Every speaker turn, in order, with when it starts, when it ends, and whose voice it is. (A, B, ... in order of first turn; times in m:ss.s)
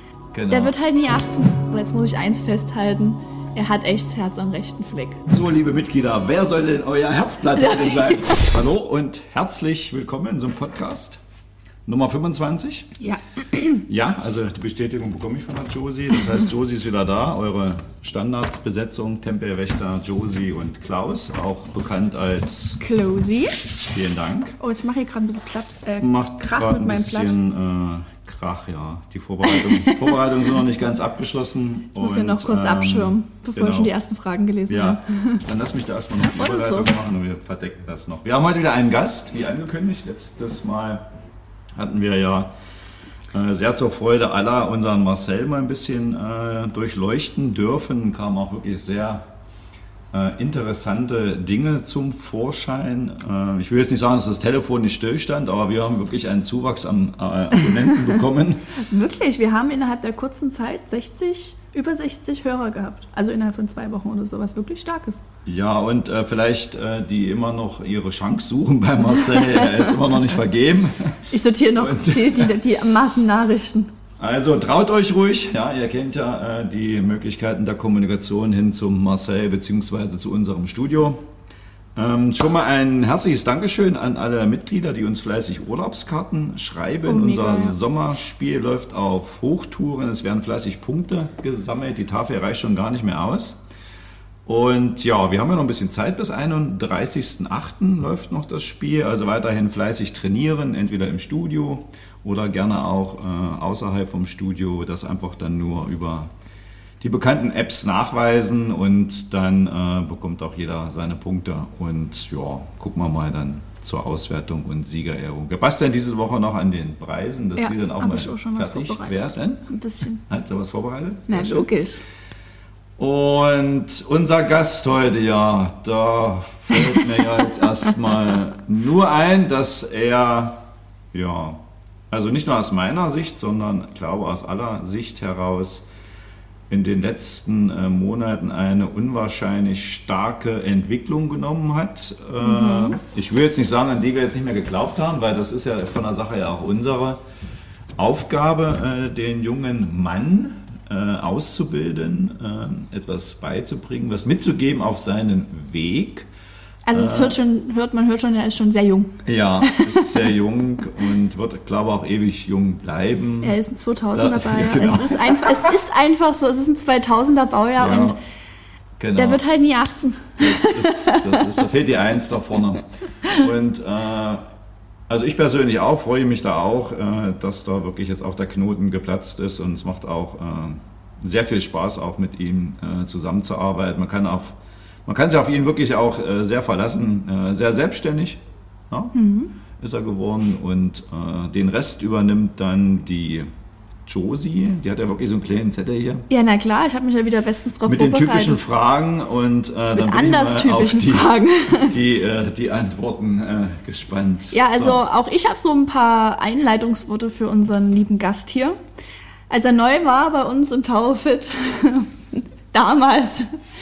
0:00.3-0:00.7 A
0:00.5-0:05.2 B
0:05.3-0:11.2 A
0:07.6-0:08.4 B
0:11.8-0:12.9 A
0:13.0-0:13.8 B
0:13.8-0:22.8 A
0:22.8-0:23.6 B
0:23.9-0:24.6 A
0:24.6-0:27.4 B
0:26.0-0:33.9 A
0:29.4-0:30.4 B
0:32.0-0:35.4 B
0:34.7-0:41.0 A
0:36.3-0:36.9 B
0:41.7-0:42.5 A
0:43.3-0:49.2 A
0:50.1-0:58.6 A
0:57.6-0:58.0 B
0:58.8-1:05.2 B
1:05.4-1:11.2 A
1:09.2-1:09.7 B
1:11.3-1:13.9 B
1:11.8-1:12.6 A
1:14.2-1:21.2 A
1:21.9-1:33.6 A
1:27.0-1:27.8 B
1:34.4-1:46.3 A
1:47.0-1:59.6 A
1:57.6-2:00.2 B
2:00.3-2:01.7 A
2:01.3-2:02.0 B
2:03.0-2:11.6 A
2:12.1-2:15.8 A
2:16.7-2:27.2 A
2:22.4-2:23.0 B
2:28.0-2:36.3 A
2:36.8-2:40.1 B
2:36.9-2:37.4 A
2:39.2-2:43.6 A
2:43.4-2:48.2 B
2:44.1-2:45.7 A
2:47.8-2:48.2 A
2:49.0-2:49.4 A
2:49.2-2:51.4 B
2:50.4-2:54.5 A
2:55.1-3:09.1 A
3:09.1-3:09.5 B
3:09.8-3:13.5 A
3:14.0-3:16.2 A
3:16.3-3:18.6 B
3:17.9-3:25.0 A
3:19.9-3:21.9 B
3:24.5-3:28.8 B
3:29.5-3:33.5 B